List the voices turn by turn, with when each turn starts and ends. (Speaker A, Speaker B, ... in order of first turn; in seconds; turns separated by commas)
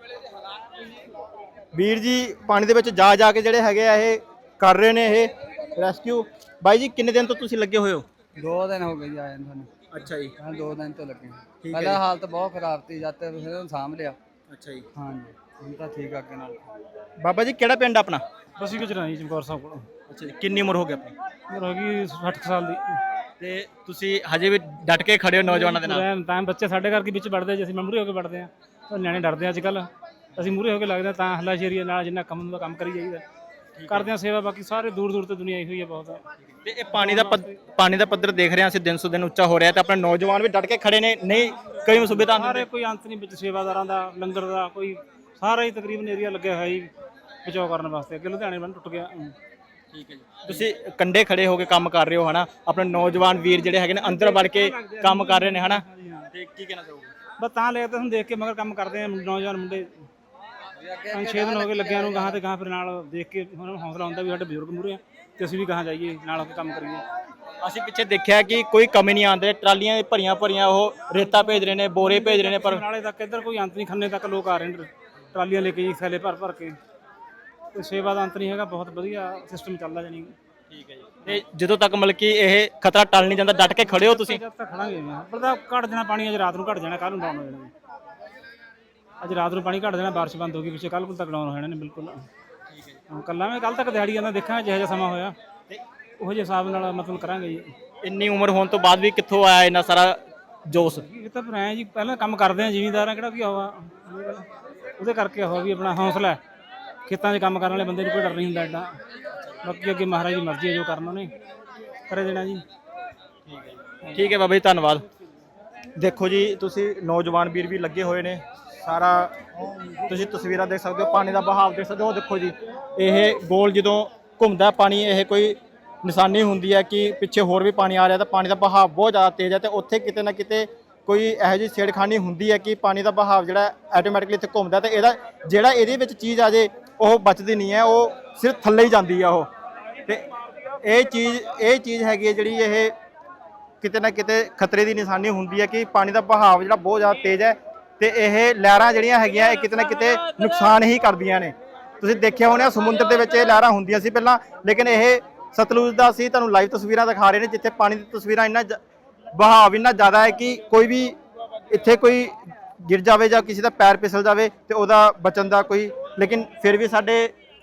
Speaker A: 1.7-8.0, Speaker B: 8.4-9.7, Speaker A: 9.9-10.3, Speaker B: 10.4-14.2, Speaker A: 11.6-12.0, Speaker A: 14.5-14.8, Speaker B: 14.9-16.7, Speaker A: 17.2-18.2, Speaker C: 18.6-19.9, Speaker A: 20.1-21.1, Speaker C: 21.5-23.0, Speaker A: 23.4-26.1, Speaker C: 25.4-33.2, Speaker A: 33.8-34.1, Speaker C: 33.9-36.2, Speaker A: 36.6-42.6, Speaker C: 36.9-37.5, Speaker C: 42.1-46.9, Speaker C: 47.4-49.3, Speaker A: 49.9-57.1, Speaker C: 54.0-56.3, Speaker C: 57.4-59.9, Speaker B: 60.8-62.4, Speaker C: 61.1-67.0, Speaker A: 67.6-72.8, Speaker C: 71.9-76.8, Speaker C: 77.7-80.3, Speaker A: 80.7-84.4, Speaker C: 83.8-87.7, Speaker C: 89.2-92.2, Speaker A: 92.7-93.0, Speaker C: 93.1-95.3, Speaker C: 96.2-97.7, Speaker A: 98.0-101.0, Speaker C: 101.0-106.4, Speaker C: 107.0-109.0, Speaker C: 109.6-111.3, Speaker C: 112.1-112.6, Speaker A: 113.5-115.0, Speaker A: 116.0-119.3, Speaker A: 120.1-139.5, Speaker A: 140.8-142.9, Speaker A: 143.8-158.8, Speaker A: 159.3-161.2, Speaker A: 161.7-167.3